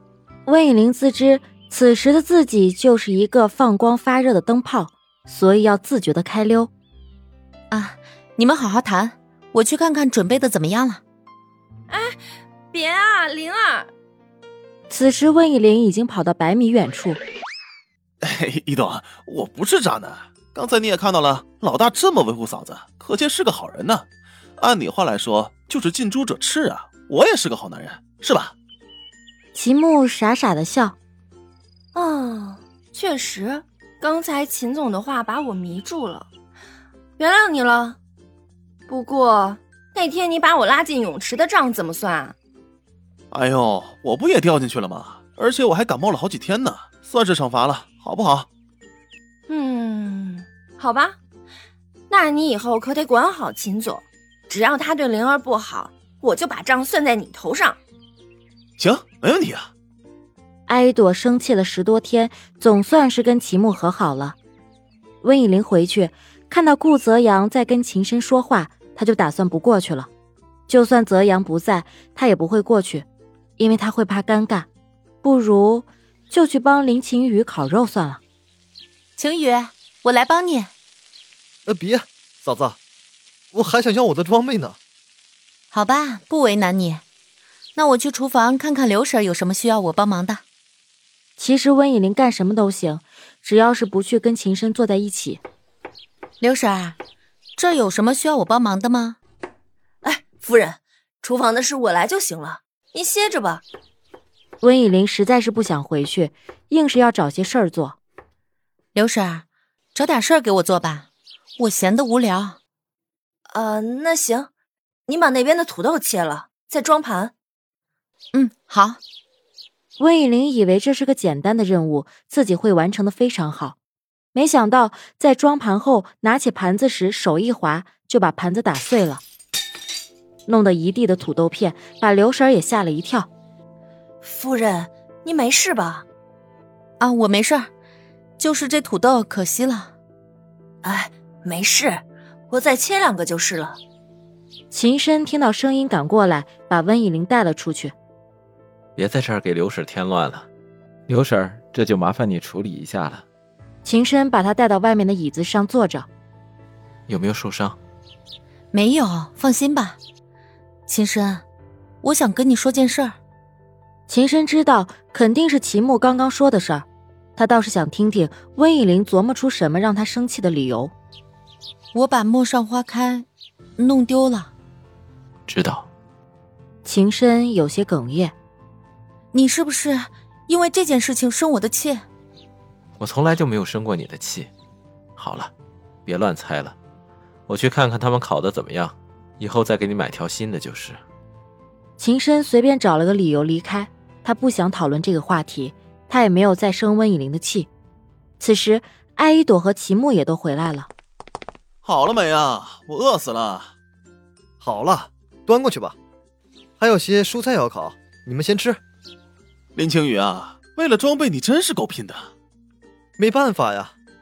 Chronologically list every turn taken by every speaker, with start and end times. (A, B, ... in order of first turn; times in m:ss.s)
0:00.4-0:06.7 A
0:07.7-0:11.0 B
0:11.9-0:12.2 C
0:12.7-0:13.9 C
0:14.9-0:17.2 A
0:18.2-0:24.0 D
0:24.6-0:28.5 D
0:29.5-0:31.0 A
0:31.9-0:36.3 C
0:37.2-0:38.0 C
0:38.9-0:42.3 C
0:43.3-0:48.5 D
0:49.5-0:51.2 C
0:52.1-0:57.8 C
0:58.8-0:59.7 D
1:00.7-1:04.4 A
1:05.2-1:10.1 A
1:10.7-1:13.1 A
1:13.6-1:14.7 A
1:15.2-1:18.2 A
1:19.2-1:20.7 B
1:21.6-1:22.8 E
1:23.5-1:24.8 E
1:25.7-1:27.0 B
1:27.8-1:30.4 B
1:31.4-1:35.4 A
1:36.4-1:37.0 B
1:37.6-1:39.2 B
1:40.0-1:43.6 C
1:44.6-1:48.0 A
1:48.9-1:51.0 B
1:51.6-1:52.6 B
1:53.5-1:54.5 C
1:55.1-1:57.3 C
1:58.3-1:59.0 B
2:00.0-2:03.8 A
2:04.3-2:09.2 A
2:10.5-2:13.3 A
2:14.2-2:16.0 C
2:17.0-2:17.7 B
2:18.4-2:19.9 B
2:20.8-2:23.8 C
2:24.7-2:27.9 A
2:29.0-2:30.4 F
2:31.1-2:33.2 F
2:33.8-2:36.1 A
2:37.1-2:37.8 F
2:38.7-2:40.0 B
2:40.9-2:41.4 B
2:42.0-2:43.1 B
2:44.1-2:50.9 A
2:51.9-2:54.5 B
2:55.5-2:55.9 F
2:56.8-2:58.3 A
2:59.3-3:02.0 B
3:03.0-3:04.5 F
3:05.2-3:05.5 F
3:06.0-3:06.8 F
3:07.5-3:11.0 F
3:12.0-3:17.7 A
3:18.4-3:20.9 A
3:21.8-3:23.7 D
3:24.6-3:26.0 E
3:26.8-3:28.8 E
3:29.7-3:32.3 D
3:33.2-3:33.9 E